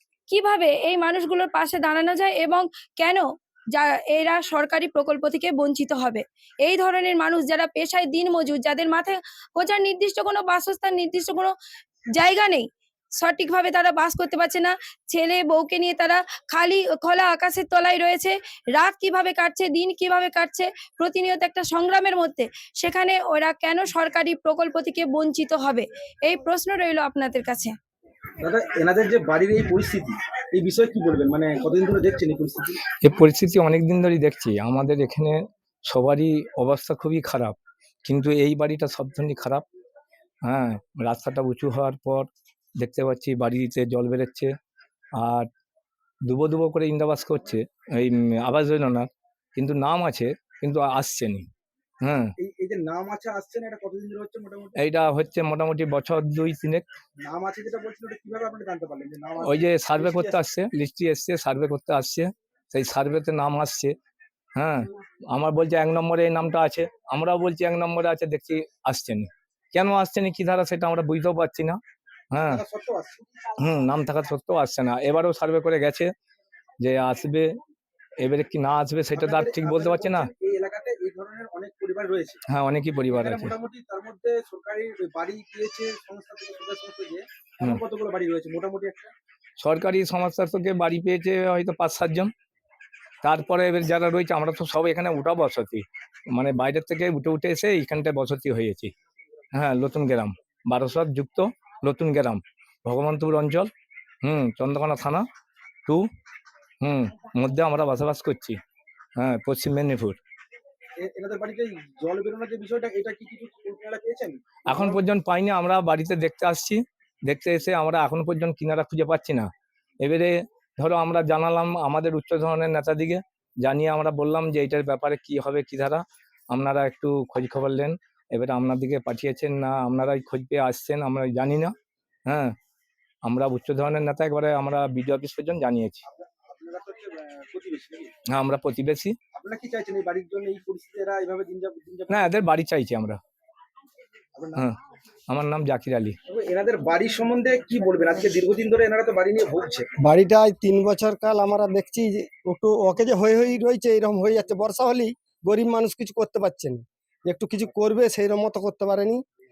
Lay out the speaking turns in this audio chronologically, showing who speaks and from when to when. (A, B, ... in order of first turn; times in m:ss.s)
0:00.3-0:11.5 A
0:12.1-0:27.8 A
0:28.4-0:32.8 B
0:33.0-0:39.6 C
0:40.4-0:44.5 C
0:45.2-0:45.5 C
0:46.2-0:51.5 C
0:52.0-0:52.3 C
0:52.4-0:54.7 B
0:54.8-0:56.8 C
0:57.2-1:00.4 B
0:59.4-1:03.9 C
1:04.6-1:11.8 C
1:12.3-1:12.6 C
1:12.4-1:13.5 B
1:13.6-1:16.1 C
1:16.8-1:17.5 C
1:18.2-1:20.3 C
1:19.1-1:22.4 B
1:22.5-1:23.5 C
1:23.1-1:29.1 B
1:29.6-1:32.3 C
1:33.2-1:38.9 C
1:39.5-1:43.7 C
1:44.2-1:45.2 C
1:46.8-1:48.6 C
1:49.2-1:50.2 C
1:51.0-1:55.0 B
1:54.7-1:59.5 C
2:00.0-2:11.7 C
2:12.3-2:12.5 C
2:13.2-2:16.0 C
2:16.0-2:18.1 B
2:18.3-2:19.2 C
2:19.3-2:22.4 B
2:22.1-2:23.2 C
2:24.3-2:24.7 B
2:25.3-2:26.2 C
2:26.3-2:29.9 B
2:30.0-2:39.2 D